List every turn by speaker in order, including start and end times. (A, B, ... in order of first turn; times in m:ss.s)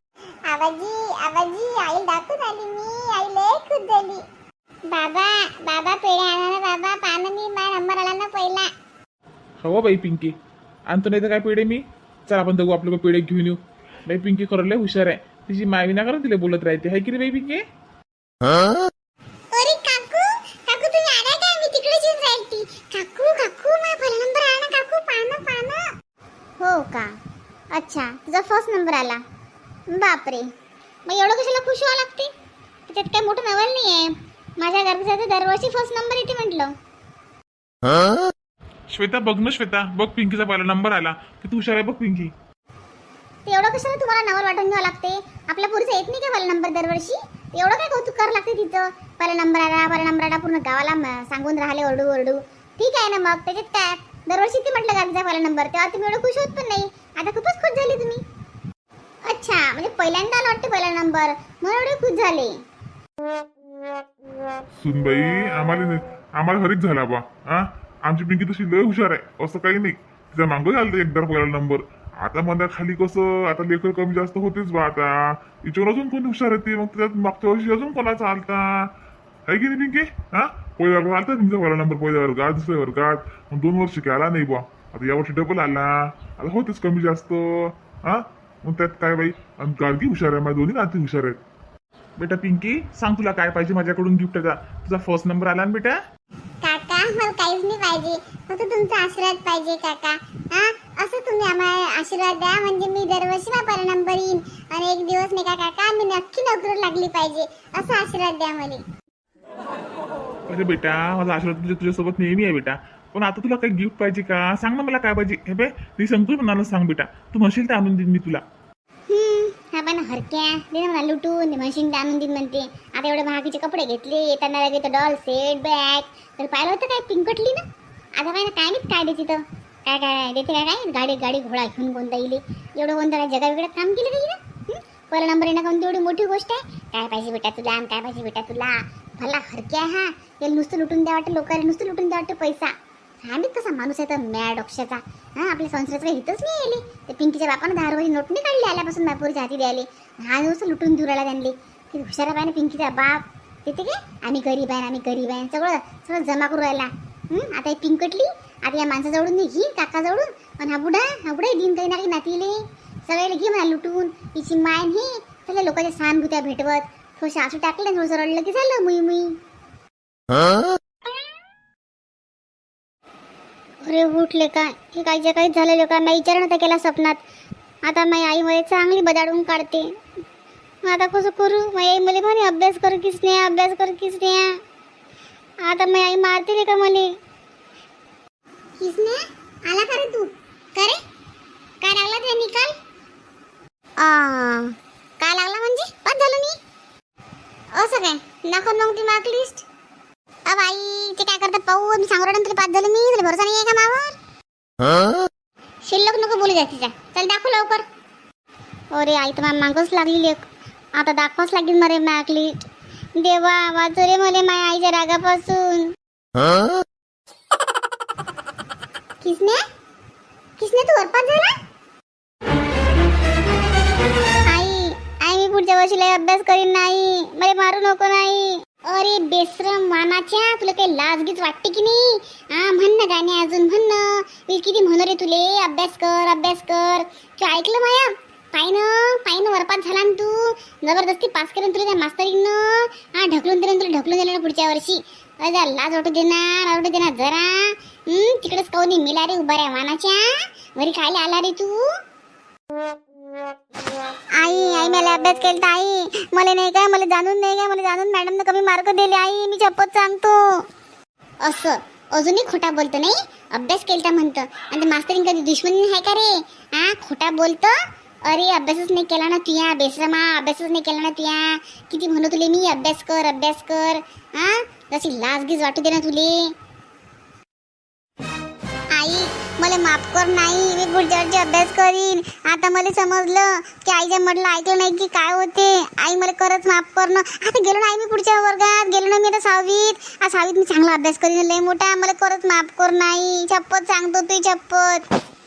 0:00.4-0:04.2 A
0:04.9-0:08.7 A
0:09.6-0:10.4 B
0:10.9-0:17.6 B
0:19.5-0:25.8 A
0:26.6-0:27.1 A
0:27.7-0:29.2 A
0:29.9-0:30.5 A
0:31.0-0:32.3 A
0:32.9-0:36.7 A
0:38.9-0:42.3 B
0:43.4-0:58.2 A
0:59.2-1:02.6 A
1:04.8-1:07.6 C
1:06.4-1:07.2 B
1:08.1-1:10.4 C
1:08.1-1:15.0 B
1:10.9-1:11.5 C
1:12.3-1:17.8 C
1:15.7-1:18.6 B
1:19.5-1:31.4 C
1:19.6-1:20.0 B
1:20.8-1:24.4 B
1:28.7-1:29.1 B
1:29.9-1:30.3 B
1:32.2-1:36.0 B
1:36.6-1:48.8 A
1:50.5-1:58.4 B
1:59.1-2:07.6 A
2:08.2-2:49.4 A
2:53.8-2:57.2 A
2:57.8-2:59.9 A
3:00.8-3:04.6 A
3:05.6-3:07.1 A
3:08.8-3:11.0 A
3:11.8-3:12.8 A
3:14.0-3:16.6 A
3:17.7-3:19.6 A
3:20.5-3:24.1 A
3:25.8-3:27.8 A
3:28.9-3:32.5 A
3:33.2-3:35.9 A
3:39.2-3:39.6 A
3:40.6-3:41.5 A
3:44.5-4:11.9 A
4:14.4-4:20.4 A
4:21.4-4:27.7 A
4:28.2-4:36.5 A
4:38.9-4:55.0 A